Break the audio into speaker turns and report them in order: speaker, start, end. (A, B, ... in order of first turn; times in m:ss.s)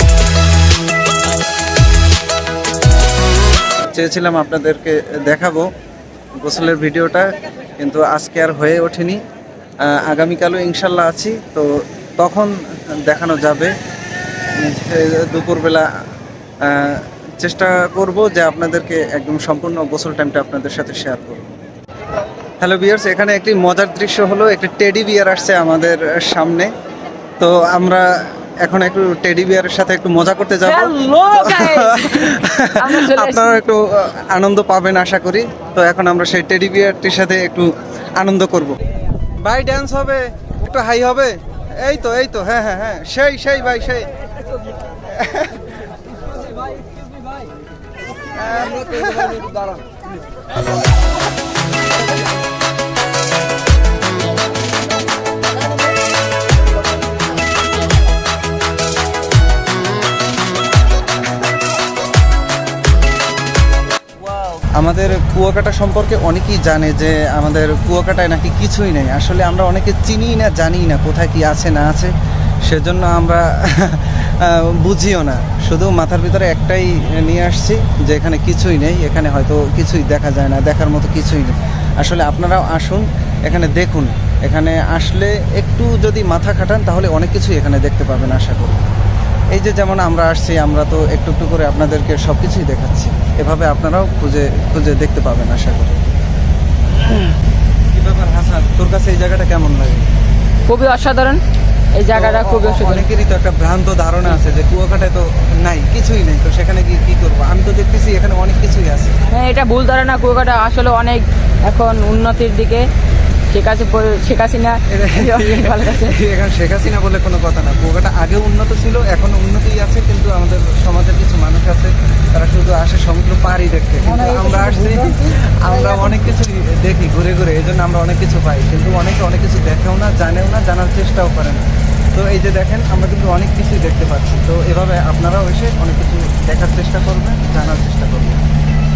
0:03.8-0:05.7 A
0:06.4-0:09.2 A
0:09.8-0:13.8 A
0:14.6-0:15.9 A
0:16.6-0:21.5 A
0:22.6-0:26.7 A
0:27.4-0:28.1 A
0:28.6-0:38.8 A
0:30.6-0:33.6 B
0:39.4-0:44.1 A
0:45.1-0:45.8 A
0:48.4-0:49.8 A
1:04.7-1:12.1 A
1:12.6-1:28.8 A
1:29.5-1:36.0 A
1:37.9-1:40.1 A
1:40.7-1:41.4 B
1:42.0-1:43.1 B
1:42.1-1:49.2 A
1:49.3-1:52.9 B
1:53.5-1:56.2 B
1:54.9-2:18.4 A
2:04.1-2:06.1 B